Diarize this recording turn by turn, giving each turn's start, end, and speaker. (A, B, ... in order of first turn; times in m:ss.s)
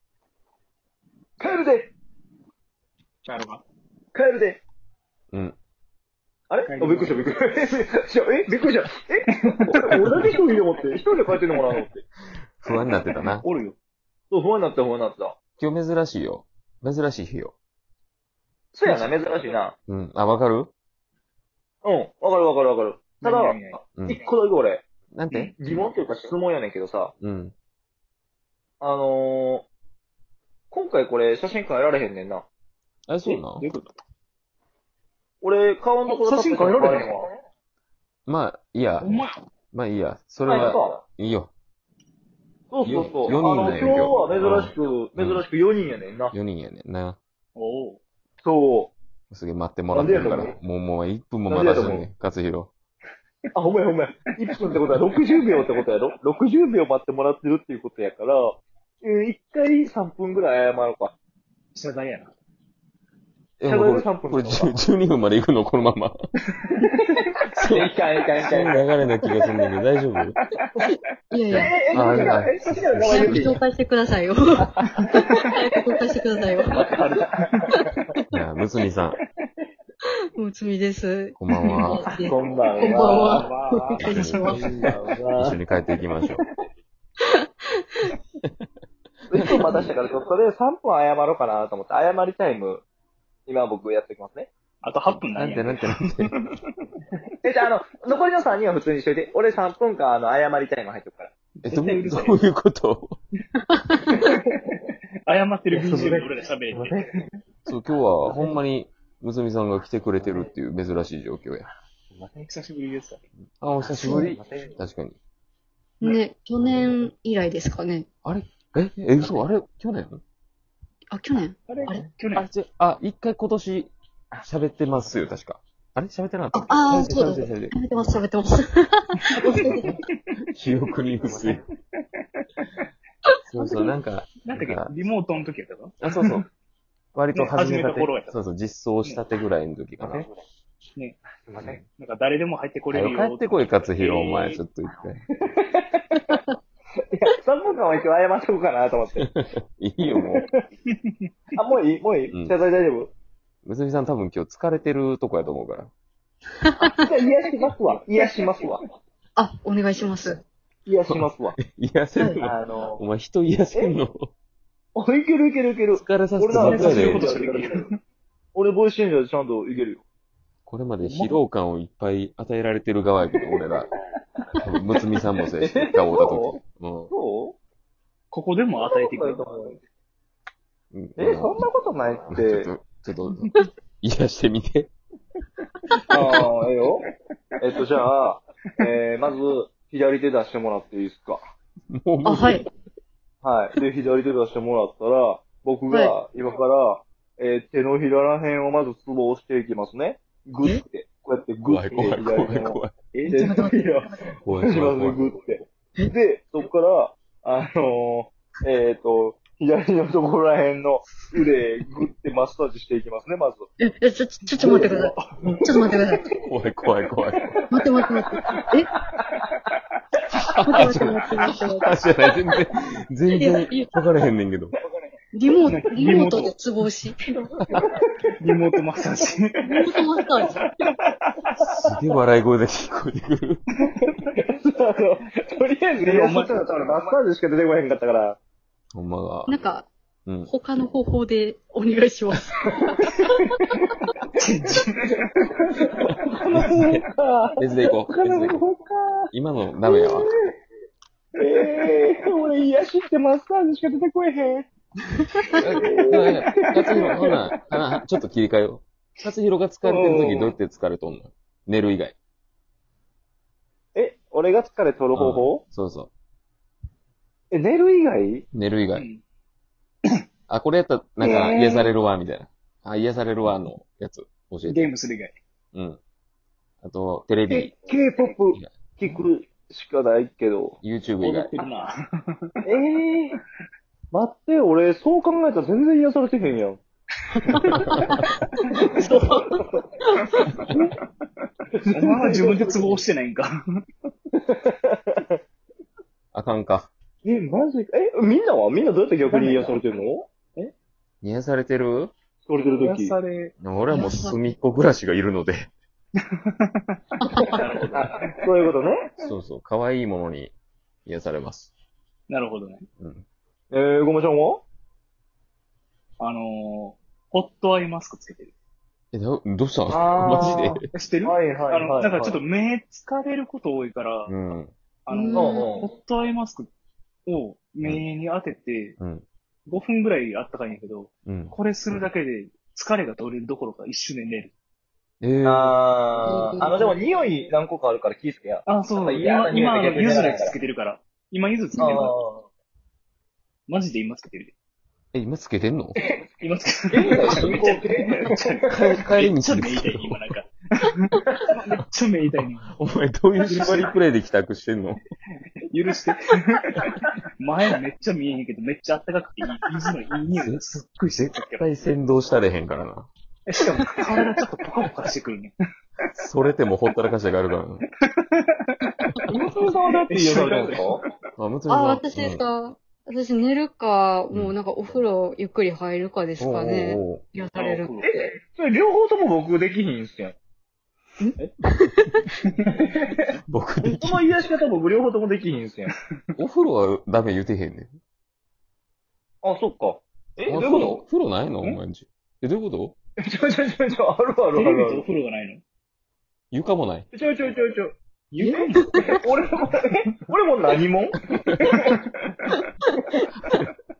0:01.4-0:01.9 A
0:03.2-0:03.6 B
0:04.1-0:04.6 A
0:06.5-0:12.0 A
0:06.6-0:07.2 B
0:09.7-0:10.4 B
0:12.6-0:13.4 C
0:13.4-0:13.8 B
0:14.3-0:15.4 A
0:15.6-0:17.5 C
0:18.7-0:19.8 A
0:19.9-0:20.7 C
0:21.8-0:27.1 A
0:23.2-0:23.8 B
0:25.1-0:25.9 C
0:27.2-0:27.5 C
0:28.8-0:29.6 A
0:30.7-0:32.4 A
0:33.1-0:33.7 C
0:33.2-0:33.9 B
0:35.4-0:37.2 A
0:36.0-0:37.2 B
0:38.3-0:39.2 C
0:39.0-0:39.4 B
0:39.7-0:41.5 C
0:40.4-0:41.0 A
0:42.7-0:46.3 A
0:42.8-0:45.4 C
0:46.3-0:47.2 C
0:47.6-0:48.0 B
0:48.4-0:48.9 A
0:49.3-0:52.7 C
0:49.9-0:50.5 A
0:51.5-0:52.1 A
0:53.5-1:01.1 A
1:01.7-1:02.3 B
1:03.6-1:06.1 C
1:03.7-1:04.7 A
1:06.7-1:07.1 B
1:07.6-1:07.9 C
1:07.7-1:08.8 A
1:08.4-1:10.4 C
1:11.3-1:12.4 D
1:11.5-1:13.6 C
1:11.5-1:13.6 A
1:13.1-1:16.8 D
1:14.9-1:15.4 B
1:16.7-1:17.7 B
1:16.7-1:17.3 A
1:18.3-1:19.2 C
1:20.3-1:24.8 D
1:21.4-1:22.1 C
1:22.2-1:23.5 A
1:22.2-1:24.8 B
1:24.0-1:24.7 C
1:24.5-1:25.6 A
1:25.4-1:26.4 C
1:27.2-1:27.8 D
1:29.3-1:32.8 A
1:29.4-1:29.7 C
1:33.5-1:34.5 A
1:34.8-1:36.6 B
1:35.1-1:36.3 C
1:37.4-1:41.3 A
1:41.6-1:43.2 C
1:41.7-1:42.4 B
1:43.7-1:44.1 D
1:44.0-1:44.7 B
1:45.2-1:47.0 B
1:45.7-1:47.2 A
1:47.7-1:51.7 C
1:48.3-1:48.5 A
1:50.2-1:50.5 A
1:52.2-1:53.2 B
1:53.6-1:55.2 C
1:54.0-1:54.4 D
1:54.1-1:54.7 A
1:56.0-1:58.1 D
1:58.2-2:00.2 C
2:01.1-2:02.1 D
2:01.7-2:02.5 B
2:02.3-2:03.9 C
2:04.4-2:07.7 C
2:06.5-2:09.9 D
2:09.3-2:09.9 B
2:10.5-2:11.6 C
2:13.5-2:14.9 C
2:14.4-2:16.0 B
2:16.0-2:16.4 C
2:17.1-2:20.3 C
2:17.3-2:18.4 B
2:21.5-2:21.8 A
2:21.9-2:24.6 B
2:22.9-2:25.2 C
2:25.5-2:26.4 A
2:27.1-2:29.3 A
2:29.2-2:30.4 C
2:30.3-2:30.6 A
2:31.6-2:33.1 A
2:33.6-2:35.9 C
2:36.6-2:37.0 D
2:36.8-2:38.8 A
2:37.6-2:38.8 B
2:39.4-2:40.4 D
2:40.8-2:41.6 A
2:41.1-2:44.3 C
2:42.2-2:42.4 D
2:42.4-2:43.0 A
2:44.9-2:47.9 A
2:45.9-2:47.3 C
2:46.5-2:48.0 B
2:48.5-2:50.0 A
2:50.6-2:53.9 C
2:51.0-2:51.4 B
2:54.6-2:57.1 C
2:55.6-2:56.6 A
2:57.1-2:57.6 A
2:58.3-2:59.4 B
2:58.8-2:59.8 A
3:00.9-3:01.6 C
3:01.2-3:02.7 A
3:02.3-3:04.9 C
3:06.1-3:06.4 B
3:06.1-3:07.0 A
3:07.6-3:11.4 A
3:11.9-3:12.7 C
3:12.2-3:12.6 D
3:13.4-3:33.6 A
3:21.6-3:22.9 C
3:22.0-3:23.6 B
3:23.3-3:24.1 D
3:24.4-3:25.4 C
3:33.8-3:36.3 D
3:34.5-3:36.0 B
3:36.4-3:37.5 C
3:37.7-3:38.9 D
3:40.6-3:44.7 C
3:40.6-3:41.9 D
3:43.3-3:44.0 D
3:45.3-3:47.2 D
3:45.6-3:46.5 B
3:47.4-3:48.3 A
3:48.4-3:49.9 B
3:49.6-3:50.6 D
3:51.3-3:51.6 B
3:51.8-3:53.6 C
3:53.8-3:54.2 B
3:54.6-3:58.4 A
3:56.0-3:56.8 B
3:58.9-3:59.6 C
3:59.5-3:59.9 D
4:00.4-4:03.1 D
4:03.3-4:03.9 A
4:04.3-4:05.2 B
4:05.6-4:09.3 A
4:06.5-4:07.0 C
4:07.6-4:08.6 C
4:09.3-4:10.3 C
4:09.9-4:10.4 A
4:11.4-4:14.6 A
4:15.5-4:22.2 C
4:15.6-4:17.3 A
4:16.1-4:17.0 B
4:19.8-4:20.5 A
4:23.9-4:25.6 A
4:25.1-4:26.1 C
4:27.5-4:28.4 A
4:28.5-4:29.0 C
4:28.9-4:29.2 B
4:30.5-4:34.9 C
4:31.2-4:31.6 A
4:31.2-4:31.9 B
4:34.7-4:35.4 B
4:35.7-4:36.0 C
4:36.8-4:37.7 C
4:37.5-4:40.8 A
4:40.8-4:41.5 C
4:41.2-4:41.9 B
4:42.6-4:43.4 A
4:44.1-4:46.8 A
4:47.4-4:47.7 B
4:47.5-4:48.0 D
4:47.9-4:48.2 C
4:48.8-4:49.9 A
4:48.8-4:49.3 B
4:51.7-4:53.0 A
4:51.9-4:53.5 B
4:54.4-4:55.4 A
4:56.3-4:56.9 C
4:57.2-5:00.3 A
4:59.3-4:59.7 B
5:01.2-5:02.1 C
5:02.4-5:03.2 A
5:02.7-5:03.5 B
5:03.6-5:05.7 C
5:03.9-5:04.4 D
5:06.9-5:08.3 B
5:07.2-5:07.6 D
5:07.9-5:09.1 A
5:09.2-5:10.5 C
5:11.0-5:11.7 C
5:12.3-5:12.8 B
5:13.0-5:13.2 C
5:13.7-5:14.6 A
5:16.2-5:18.5 B
5:19.1-5:20.9 C
5:19.9-5:22.4 A
5:20.9-5:24.3 B
5:24.3-5:24.7 C
5:25.0-5:26.7 B
5:25.1-5:25.7 D
5:25.3-5:25.9 A
5:27.2-5:29.0 B
5:29.0-5:29.2 C
5:29.7-5:34.5 B
5:31.2-5:31.5 C
5:35.2-5:35.8 C
5:35.4-5:40.6 A
5:36.2-5:37.0 D
5:38.6-5:42.1 B
5:41.8-5:42.4 A
5:43.7-5:44.5 B
5:45.1-5:46.0 C
5:46.0-5:46.2 A
5:46.4-5:52.7 B
5:46.9-5:48.8 A
5:48.7-5:50.2 C
5:52.7-5:55.0 C
5:53.4-5:53.9 B
5:55.7-6:01.7 B
6:00.3-6:03.1 C
6:03.5-6:05.5 B
6:06.1-6:07.8 C
6:09.3-6:11.0 A
6:09.9-6:11.0 B
6:11.4-6:12.5 C
6:11.7-6:17.9 D
6:14.3-6:15.0 C
6:16.4-6:17.2 C
6:17.6-6:18.1 B
6:18.0-6:20.4 A
6:21.2-6:22.2 D
6:22.4-6:22.8 B
6:23.5-6:24.3 C
6:23.8-6:25.9 A
6:26.4-6:27.9 C
6:29.4-6:31.0 A
6:30.5-6:33.0 C
6:33.2-6:35.0 A
6:34.5-6:35.6 B
6:36.5-6:37.1 C
6:37.1-6:41.9 A
6:38.3-6:39.2 B
6:41.3-6:41.6 C
6:41.6-6:42.1 B